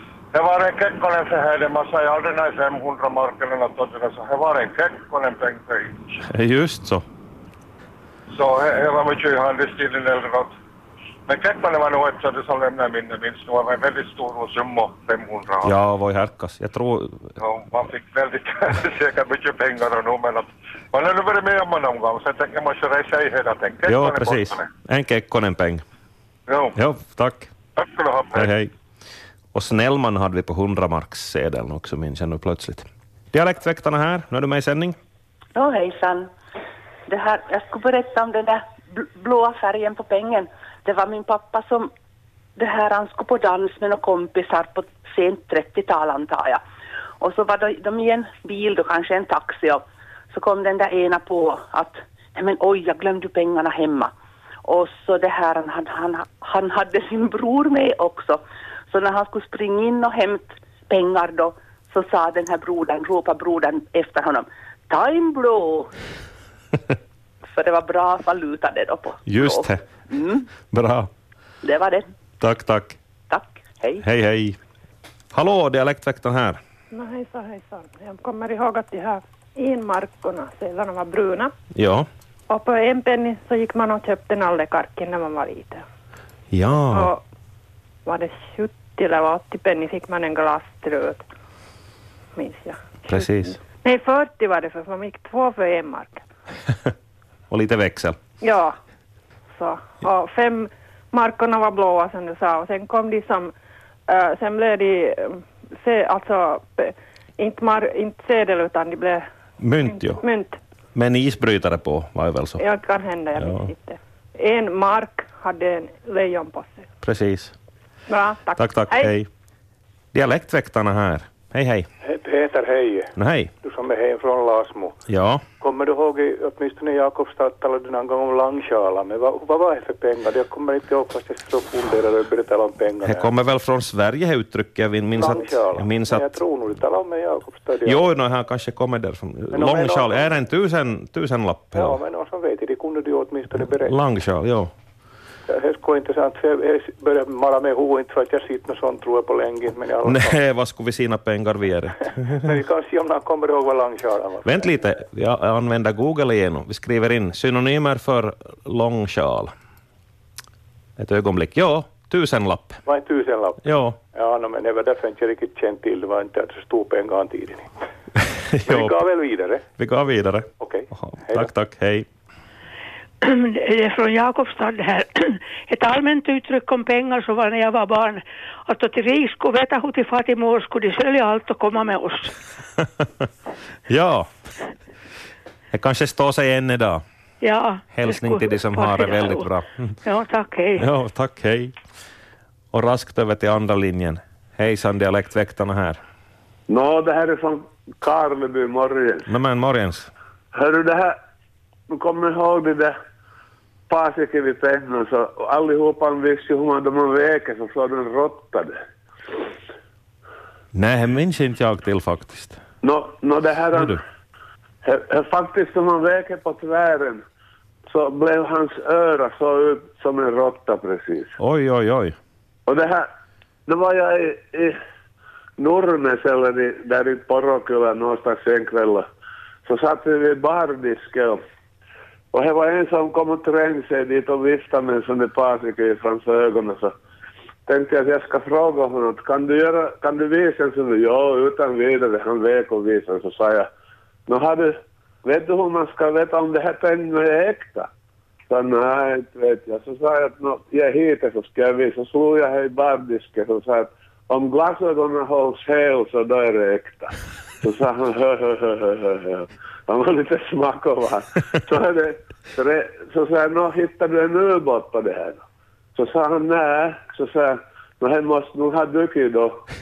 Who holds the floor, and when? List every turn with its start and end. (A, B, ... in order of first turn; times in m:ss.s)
0:00.3-0:06.0 A
0:06.2-0:07.0 B
0:08.3-0:10.5 A
0:11.3-0:15.8 A
0:15.6-0:17.3 B
0:17.4-0:24.7 A
0:23.9-0:25.8 B
0:26.5-0:26.8 A
0:26.8-0:27.5 B
0:27.8-0:28.5 A
0:28.4-0:28.7 B
0:29.5-0:35.0 B
0:35.6-0:36.3 C
0:37.1-0:41.9 C
0:42.6-0:46.6 C
0:47.2-0:54.1 C
0:54.6-1:05.9 C
1:07.5-1:10.5 C
1:09.2-1:09.8 B
1:10.7-1:11.1 B
1:11.6-1:12.0 C
1:12.4-1:13.0 B
1:13.3-1:14.0 C
1:14.0-1:14.6 B
1:15.3-1:16.6 B
1:16.9-1:21.5 D
1:21.7-1:22.1 B
1:22.5-1:25.8 D
1:26.5-1:27.1 B
1:26.9-1:27.2 D
1:28.1-1:31.2 D
1:32.4-1:36.2 D
1:33.1-1:33.6 B
1:37.5-1:38.2 B
1:38.4-1:38.8 D
1:39.6-1:43.5 D
1:44.1-1:49.3 D
1:49.6-1:50.2 B
1:49.8-1:50.6 D
1:51.0-1:52.6 B
1:52.6-1:56.9 D
1:53.4-1:53.7 B
1:57.0-1:57.6 B
1:58.1-1:59.2 D
1:58.6-1:59.3 B
2:00.1-2:01.9 B
2:02.0-2:05.0 E
2:03.2-2:03.5 B
2:05.1-2:05.4 B
2:05.6-2:13.3 E
2:13.0-2:16.3 B
2:15.1-2:18.0 E
2:17.8-2:22.0 B
2:19.5-2:20.3 E
2:21.8-2:24.0 E
2:23.6-2:24.7 B
2:25.5-2:30.4 E
2:30.0-2:32.6 B
2:32.4-2:34.7 E
2:34.4-2:39.5 B
2:41.0-2:42.8 B
2:42.9-2:47.8 E
2:43.6-2:44.0 B
2:48.2-2:48.9 B
2:48.7-2:49.6 E
2:49.8-2:52.1 B
2:50.6-2:51.5 E
2:53.2-3:02.3 F
3:03.9-3:04.3 B
3:05.7-3:07.0 B
3:07.4-3:09.5 F
3:07.9-3:10.0 B
3:10.0-3:10.8 F
3:10.8-3:11.8 B
3:12.7-3:16.0 B
3:16.7-3:19.3 G
3:19.3-3:20.1 B
3:20.5-3:21.2 G
3:21.9-3:23.0 G
3:23.9-3:28.8 G
3:30.7-3:32.6 B
3:32.8-3:34.0 G
3:34.8-3:37.2 G
3:37.9-3:41.4 G
3:41.4-3:42.2 B
3:42.7-3:43.1 G
3:43.7-3:44.8 G
3:45.6-3:49.1 G
3:49.7-3:51.4 G
3:52.3-3:56.9 G
3:57.7-4:03.7 G
4:04.3-4:07.9 G
4:08.5-4:25.4 G
4:26.0-4:29.6 G